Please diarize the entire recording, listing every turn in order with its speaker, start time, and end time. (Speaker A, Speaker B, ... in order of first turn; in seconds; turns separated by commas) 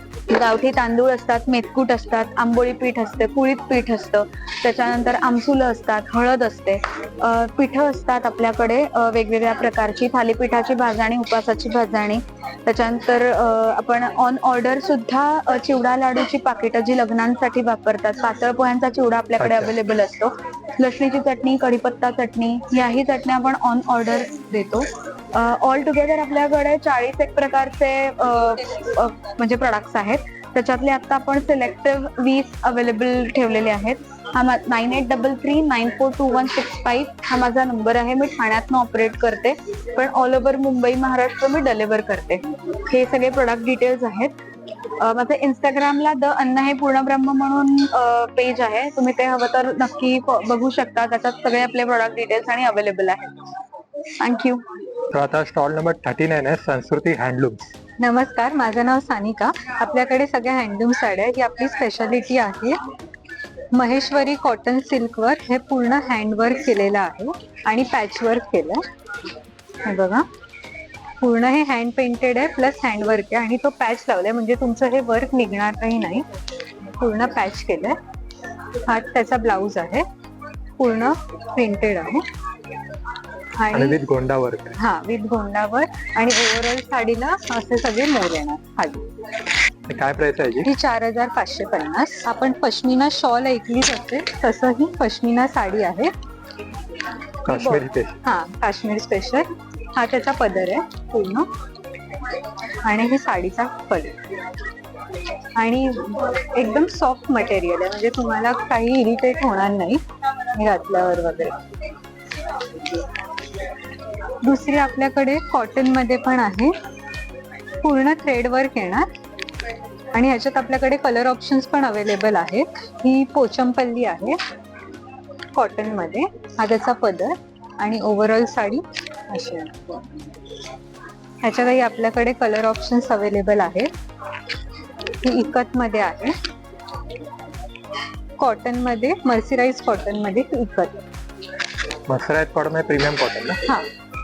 Speaker A: 0.3-44.3, Speaker B: 19.4-19.7, Speaker A: 45.0-53.3, Speaker A: 54.2-54.6, Speaker B: 55.1-57.7, Speaker C: 58.0-62.8, Speaker C: 63.7-68.8, Speaker C: 69.8-70.3, Speaker C: 71.2-76.3, Speaker C: 76.9-78.0, Speaker C: 78.8-80.0, Speaker C: 80.8-82.2, Speaker C: 83.6-84.0, Speaker B: 83.7-84.8, Speaker C: 84.8-89.1, Speaker B: 89.9-90.7, Speaker C: 90.6-96.1, Speaker B: 97.4-98.2, Speaker C: 97.5-101.5, Speaker C: 102.8-104.2, Speaker C: 105.5-110.0, Speaker C: 110.5-111.6, Speaker C: 114.4-116.7, Speaker C: 117.8-119.1, Speaker C: 120.1-124.4, Speaker C: 125.5-130.0, Speaker C: 131.4-133.9, Speaker C: 135.2-136.3, Speaker C: 138.4-141.0, Speaker B: 142.1-143.6